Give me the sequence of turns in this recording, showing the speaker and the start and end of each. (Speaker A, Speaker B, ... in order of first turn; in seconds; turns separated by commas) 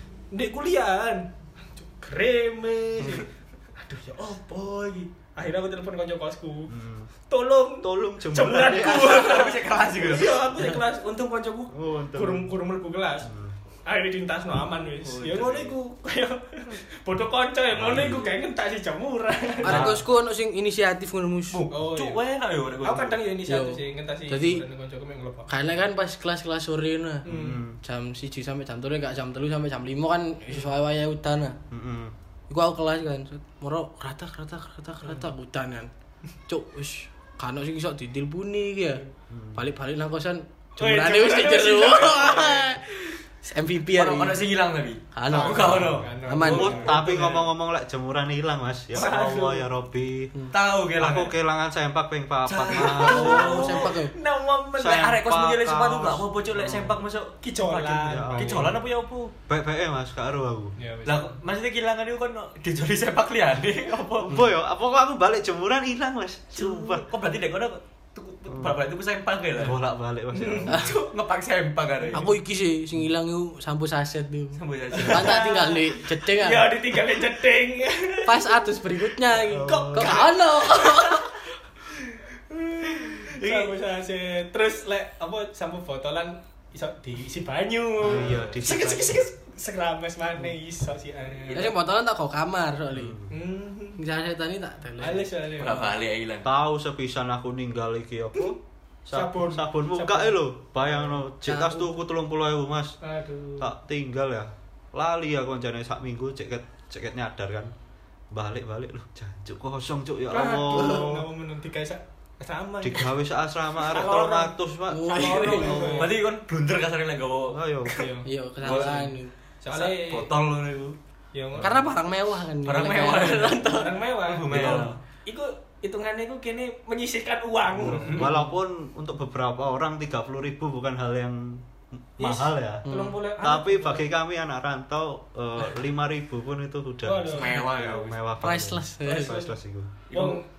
Speaker A: 0.3-6.7, Speaker B: 6.7-7.1, Speaker A: 7.3-13.3, Speaker B: 7.8-9.2, Speaker C: 8.7-10.5, Speaker B: 11.7-12.5, Speaker B: 13.2-13.5, Speaker A: 13.9-19.9, Speaker C: 15.0-15.8, Speaker B: 17.7-18.3, Speaker C: 17.9-18.2, Speaker D: 19.6-21.6, Speaker B: 19.6-20.0, Speaker C: 21.5-23.2, Speaker A: 21.7-22.2, Speaker A: 22.8-25.5, Speaker D: 23.5-24.6, Speaker D: 25.5-27.3, Speaker A: 27.2-27.6, Speaker B: 27.2-27.8, Speaker D: 27.8-31.6, Speaker B: 31.7-32.1, Speaker D: 32.5-35.9, Speaker D: 36.5-44.5, Speaker B: 39.3-39.6, Speaker A: 40.8-42.8, Speaker C: 43.9-47.1, Speaker D: 45.1-46.9, Speaker A: 45.3-47.5, Speaker B: 45.7-50.3, Speaker A: 48.9-49.7, Speaker C: 50.5-51.3, Speaker B: 51.0-53.6, Speaker C: 52.5-54.0, Speaker A: 52.8-55.1, Speaker D: 53.0-54.1, Speaker B: 54.8-57.0, Speaker C: 54.8-59.3, Speaker A: 57.4-58.7, Speaker B: 57.9-58.8, Speaker B: 59.5-60.8, Speaker A: 60.8-61.4, Speaker C: 61.0-64.5, Speaker B: 64.2-67.1, Speaker C: 66.5-69.8, Speaker B: 68.5-68.8, Speaker B: 69.6-71.0, Speaker A: 70.3-71.1, Speaker C: 70.8-72.3, Speaker D: 72.1-76.7, Speaker C: 74.6-75.6, Speaker A: 74.9-78.8, Speaker D: 78.3-81.2, Speaker A: 79.3-91.7, Speaker B: 79.5-80.3, Speaker C: 83.0-83.7, Speaker B: 88.0-89.3, Speaker C: 88.1-88.5, Speaker D: 91.5-93.2, Speaker B: 92.9-93.3, Speaker A: 93.3-94.0, Speaker D: 94.0-95.3, Speaker A: 95.0-96.0, Speaker C: 95.6-96.5, Speaker B: 96.4-103.0, Speaker A: 99.1-101.2, Speaker D: 101.5-101.9, Speaker A: 103.0-103.7, Speaker B: 103.6-107.7, Speaker B: 108.3-111.3, Speaker A: 110.3-113.1, Speaker B: 112.8-116.1, Speaker A: 113.8-116.2, Speaker D: 114.9-115.9, Speaker C: 115.7-117.6, Speaker B: 117.5-118.1, Speaker A: 117.9-119.0, Speaker D: 118.2-119.3, Speaker C: 118.6-119.1, Speaker A: 119.6-120.3, Speaker C: 119.7-121.0, Speaker A: 121.3-121.8, Speaker D: 121.6-124.0, Speaker C: 122.6-123.7, Speaker A: 123.6-128.3, Speaker C: 124.2-125.0, Speaker B: 124.5-125.0, Speaker B: 127.7-132.9, Speaker C: 127.9-128.3, Speaker D: 128.2-128.5, Speaker A: 132.2-134.1, Speaker D: 132.8-133.2, Speaker B: 133.4-140.0, Speaker A: 137.0-137.6, Speaker C: 137.3-138.2, Speaker D: 138.4-139.4, Speaker A: 139.1-139.5, Speaker C: 140.1-140.4, Speaker A: 140.1-140.5